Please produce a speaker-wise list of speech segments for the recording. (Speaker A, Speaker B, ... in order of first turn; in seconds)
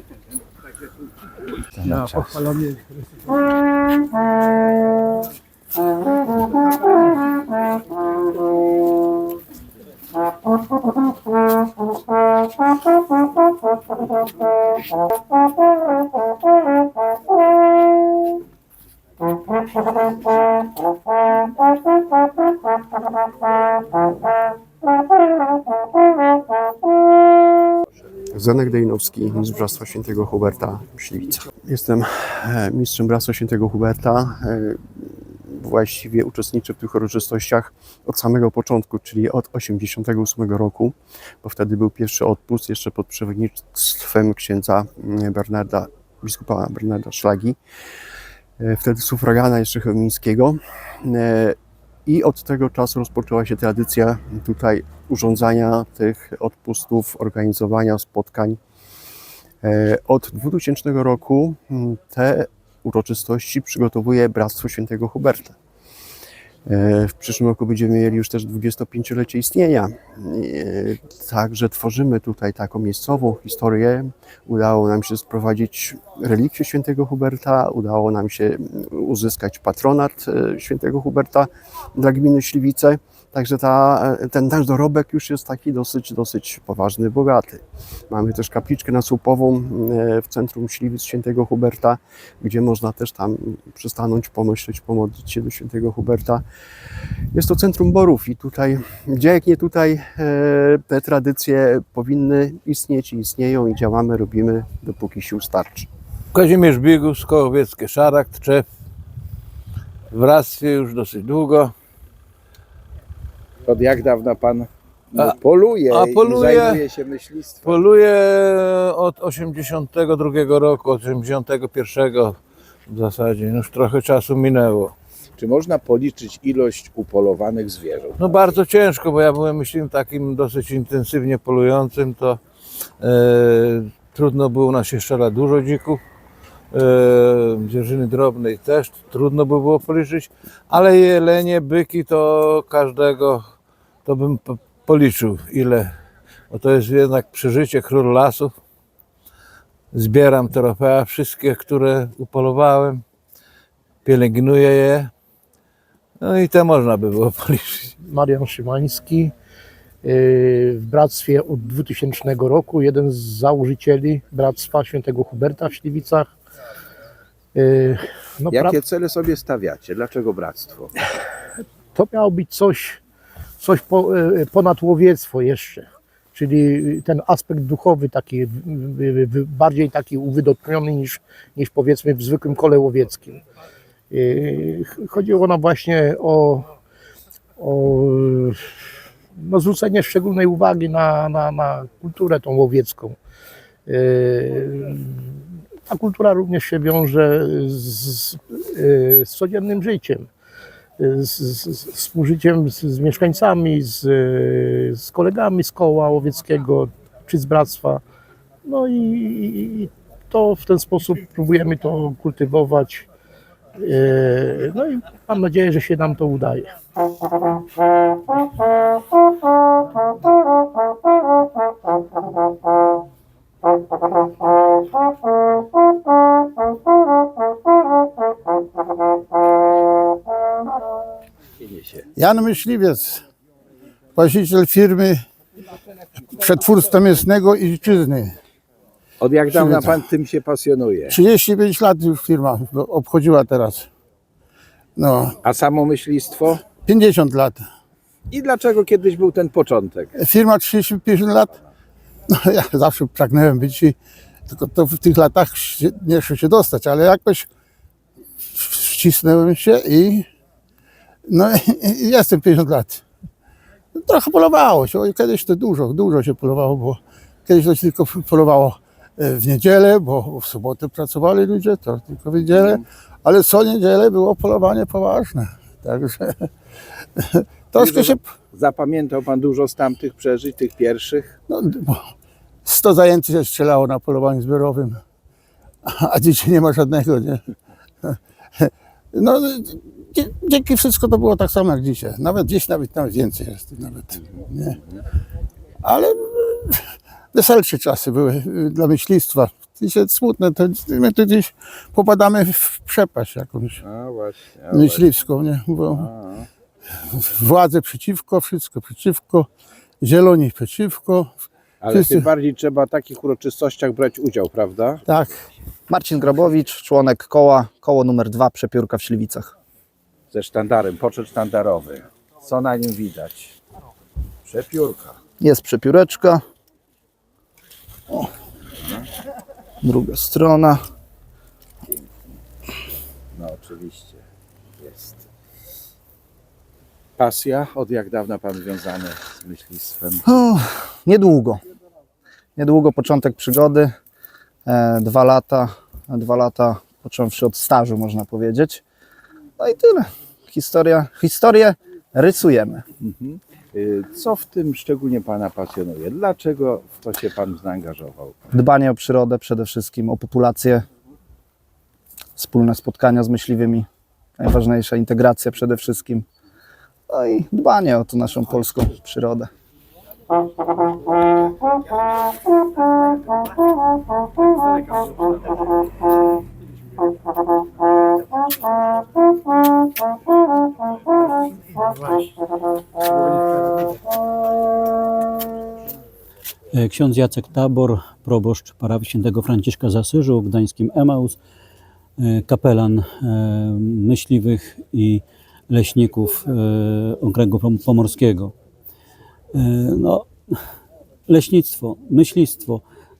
Speaker A: 1.8-2.5, 113.7-117.8, 125.4-128.6, 168.5-170.9, 231.6-232.1, 239.2-241.2, 245.4-246.7, 248.3-250.2, 272.5-272.8, 277.8-281.4, 303.8-305.1, 305.9-306.5, 311.8-315.0, 320.3-323.6, 324.4-325.2, 331.9-332.2, 333.3-334.2, 334.8-335.2, 337.2-340.2, 353.0-358.4
Speaker B: 28.3-47.6, 48.6-58.6, 59.6-65.5, 66.7-96.4, 97.3-105.9
Speaker C: 106.3-108.7, 110.1-111.7, 115.9-116.8, 117.7-122.3, 122.9-124.9, 128.2-132.4, 133.0-136.0, 136.8-143.4, 144.1-145.9, 146.5-148.5, 149.9-153.0, 154.1-155.1, 156.2-157.9
Speaker D: 158.0-159.3, 160.0-166.3, 167.6-168.8, 171.9-173.0, 173.6-183.4, 184.1-186.7, 187.6-188.6, 189.4-193.2, 193.9-200.3, 201.0-208.0, 208.6-213.1, 213.8-216.7
Speaker E: 232.2-233.2, 234.1-235.2, 236.3-238.4, 239.5-240.1, 241.1-243.9, 244.9-245.4, 246.7-247.7, 250.2-251.5, 252.3-254.0, 254.5-257.5, 258.5-260.3, 261.2-263.0, 263.9-276.5, 277.2-278.3, 281.5-282.1, 282.6-285.0, 285.9-287.4, 288.0-294.8, 295.8-303.8, 304.7-306.1, 307.1-309.5, 310.0-312.3, 315.1-315.4
Speaker F: 315.9-319.5, 325.4-326.4, 329.8-330.8, 340.3-341.6, 342.6-343.9, 344.7-348.8, 349.6-352.8, 358.5-360.9, 362.4-363.9, 364.4-366.2, 367.1-369.5
Speaker G: 386.7-391.4, 392.2-398.5, 399.5-400.5, 401.3-402.8